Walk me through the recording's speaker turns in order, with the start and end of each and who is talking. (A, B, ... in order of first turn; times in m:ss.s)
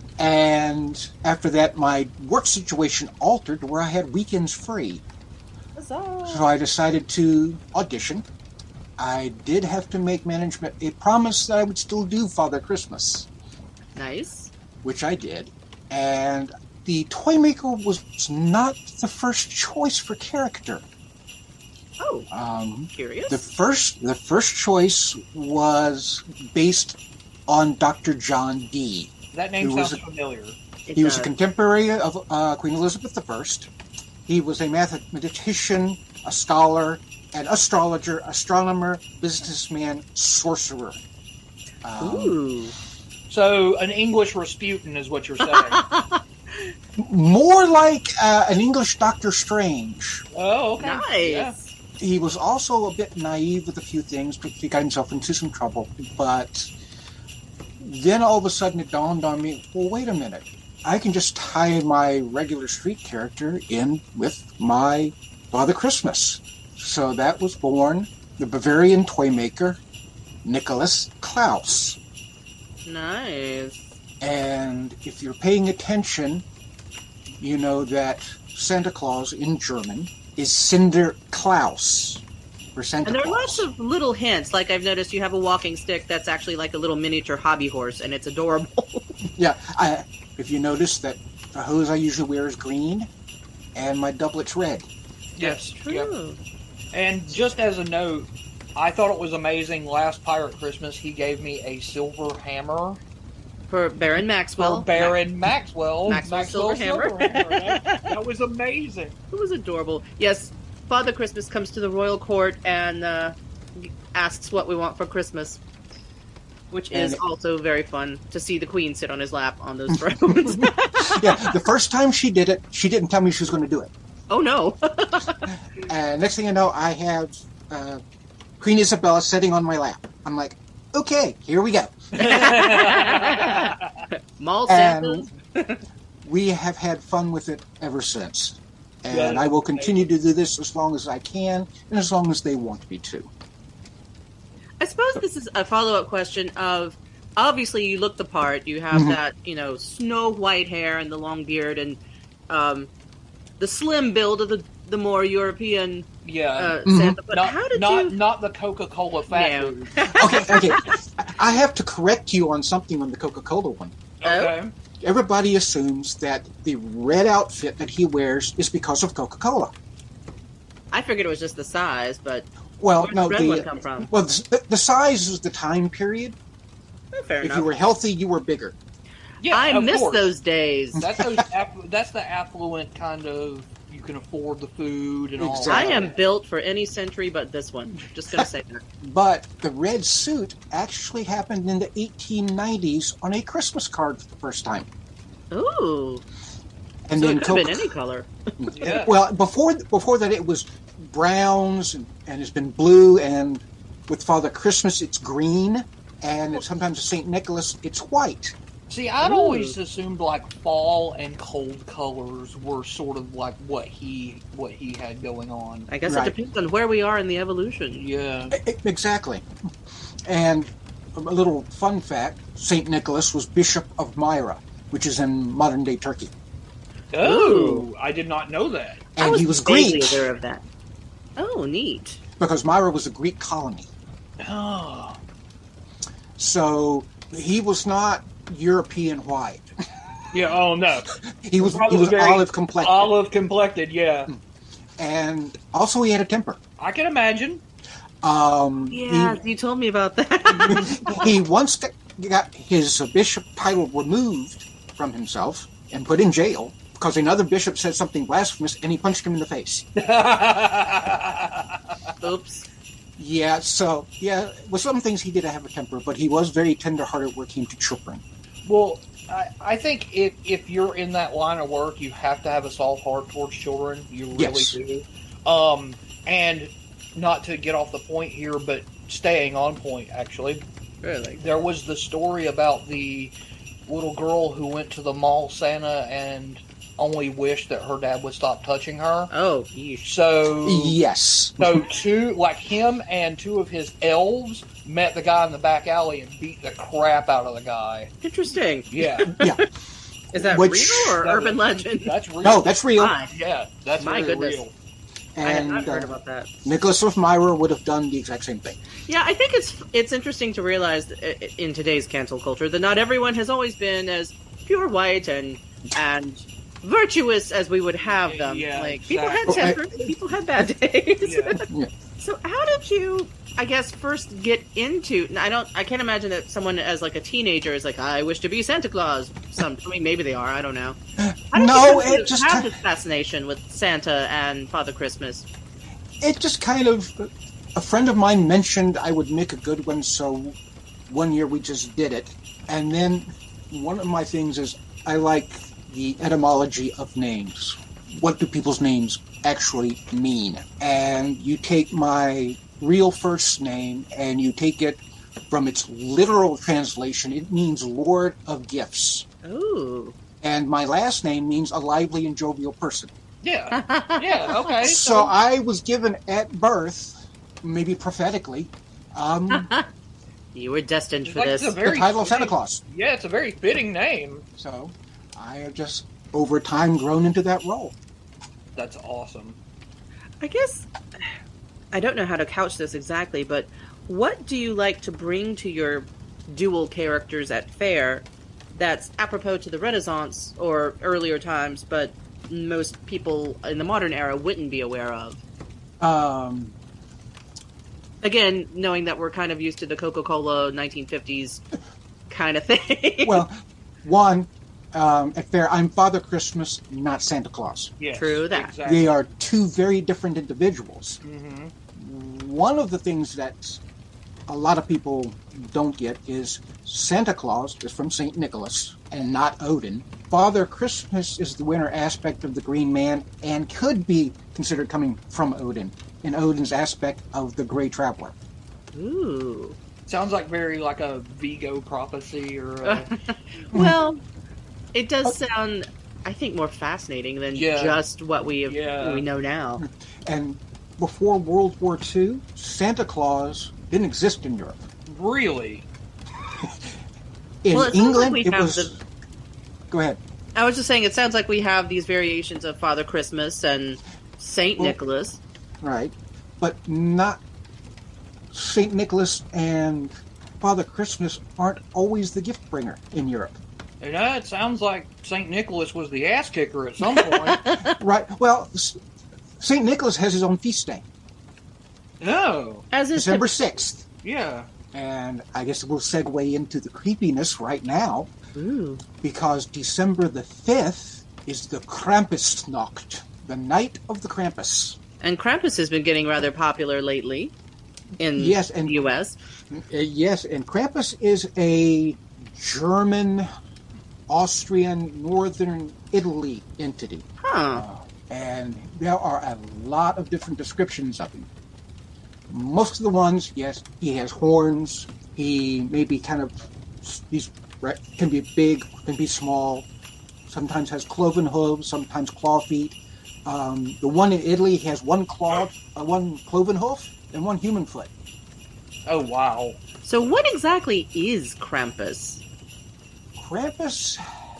0:00.2-0:05.0 A
0:05.8-0:06.5 B
0:06.2-0:08.2 A
0:09.0-0:13.3 A
0:14.0-0:14.5 B
0:14.8-0:20.8 A
0:22.0-0:22.3 B
0:22.3-0:30.0 A
0:22.9-0:23.4 B
0:29.3-0:30.6 C
0:30.9-0:31.3 B
0:30.9-0:33.7 A
0:34.3-0:41.0 A
0:41.8-0:42.4 A
0:42.0-0:42.7 B
0:43.3-0:45.8 C
0:45.4-0:46.7 B
0:47.0-0:50.2 A
0:50.3-0:51.5 C
0:50.8-0:51.7 B
0:52.0-0:56.7 A
0:57.8-1:09.8 A
1:10.4-1:12.0 A
1:12.8-1:13.9 B
1:14.2-1:16.4 A
1:17.4-1:22.2 A
1:22.8-1:23.7 A
1:23.0-1:29.1 B
1:29.3-1:33.1 A
1:33.7-1:34.9 A
1:35.4-1:36.1 C
1:35.4-1:36.4 B
1:36.9-1:43.0 C
1:43.7-1:45.1 B
1:44.6-1:49.1 C
1:46.1-1:48.1 B
1:49.3-1:55.6 B
1:56.7-2:01.6 B
1:56.9-1:57.2 A
1:59.9-2:03.9 A
2:04.3-2:05.5 B
2:05.8-2:08.0 A
2:08.6-2:12.5 A
2:12.2-2:13.8 B
2:12.2-2:13.9 C
2:14.4-2:15.8 B
2:14.7-2:15.3 A
2:16.2-2:23.3 A
2:19.1-2:20.0 C
2:24.8-2:32.9 B
2:28.9-2:29.2 A
2:33.6-2:38.2 B
2:36.2-2:40.6 C
2:36.8-2:37.2 A
2:39.3-2:41.0 B
2:40.1-2:43.9 A
2:44.2-2:44.7 C
2:44.2-2:44.6 B
2:45.0-2:49.7 A
2:50.9-2:52.5 B
2:52.8-2:56.4 A
2:53.0-2:54.1 B
2:57.1-2:57.7 B
2:57.4-2:58.8 A
2:59.4-3:00.3 C
2:59.5-3:01.0 B
3:01.0-3:06.1 C
3:01.2-3:01.4 A
3:05.4-3:06.1 A
3:05.7-3:08.8 B
3:09.0-3:14.9 A
3:15.5-3:16.2 B
3:17.1-3:17.9 A
3:17.1-3:18.3 B
3:18.6-3:28.5 A
3:18.7-3:19.1 C
3:28.9-3:35.9 C
3:29.2-3:29.7 B
3:35.9-3:38.0 B
3:36.1-3:36.3 A
3:38.0-3:38.6 C
3:38.5-3:39.4 A
3:40.2-3:46.3 A
3:47.1-3:49.0 C
3:47.2-3:47.9 B
3:49.2-3:50.2 A
3:49.2-3:50.6 B
3:51.4-3:52.2 B
3:52.4-3:53.9 A
3:54.4-3:55.2 C
3:56.4-3:59.7 A
4:00.3-4:04.3 C
4:01.3-4:03.1 A
4:05.0-4:06.6 A
4:06.8-4:07.6 C
4:08.2-4:09.4 A
4:08.9-4:11.3 B
4:10.6-4:19.8 A
4:20.0-4:21.8 C
4:22.2-4:22.6 B
4:23.2-4:28.2 A
4:28.6-4:40.6 C
4:34.3-4:34.7 A
4:41.0-4:41.4 B
4:41.4-4:43.3 C
4:43.9-4:49.3 C
4:49.3-4:50.1 B
4:50.0-4:51.0 C
4:50.6-4:51.9 A
4:51.6-4:58.1 C
4:58.2-4:59.6 B
4:58.9-4:59.4 C
4:59.3-4:59.6 A
5:00.3-5:02.1 B
5:00.3-5:01.2 A
5:01.2-5:02.7 C
5:02.4-5:03.1 A
5:03.0-5:03.3 B
5:03.3-5:04.7 C
5:04.0-5:04.6 B
5:05.3-5:06.1 A
5:05.4-5:06.5 B
5:06.6-5:08.8 A
5:09.1-5:21.6 B
5:18.1-5:19.7 C
5:19.4-5:20.1 A
5:21.2-5:21.6 C
5:21.5-5:21.9 A
5:22.2-5:31.0 B
5:31.2-5:32.7 A
5:31.5-5:35.4 B
5:36.2-5:40.6 A
5:41.1-5:55.0 A
5:55.5-5:59.2 A
5:59.4-6:00.2 B
6:00.4-6:03.1 A
6:03.4-6:05.3 C
6:03.7-6:04.7 B
6:04.8-6:09.7 A
6:09.5-6:09.9 B
6:10.5-6:11.8 B
6:11.2-6:14.4 C
6:11.8-6:12.8 A
6:14.6-6:17.9 A
6:18.8-6:19.6 C
6:20.4-6:20.9 B
6:21.9-6:35.4 B
6:36.0-6:36.8 A
6:38.2-6:41.6 B
6:42.3-6:43.4 B
6:43.2-6:47.9 A
6:48.0-6:49.2 C
6:48.1-6:48.7 B
6:48.8-6:51.2 A
6:51.2-6:51.7 C
6:51.9-6:53.8 A
6:54.5-7:08.3 A
7:08.9-7:09.8 B
7:10.1-7:13.1 C
7:12.8-7:14.2 B
7:14.9-7:19.8 B
7:17.5-7:18.0 C
7:18.7-7:19.2 C
7:19.8-7:24.8 A
7:25.0-7:25.8 C
7:27.6-7:29.0 A
7:27.7-7:28.9 B
7:29.9-7:30.2 A
7:30.5-7:35.4 B
7:35.8-7:37.4 A
7:38.5-7:43.6 A
7:44.0-7:47.7 C
7:47.1-7:48.0 B
7:47.9-7:49.0 A
7:49.6-7:51.0 A
7:52.2-7:52.8 C
7:52.9-7:53.5 B
7:53.1-7:54.0 A
7:54.2-7:54.7 C
7:54.9-7:58.3 A
7:58.5-7:59.0 B
7:59.2-8:05.0 A
8:05.2-8:07.5 B
8:08.2-8:09.4 B
8:08.4-8:09.0 A
8:09.7-8:13.5 A
8:14.3-8:21.5 A
8:17.4-8:17.8 B
8:22.5-8:29.9 A
8:30.5-8:38.1 A
8:39.0-8:39.8 C
8:40.0-8:42.4 B
8:43.4-8:44.2 A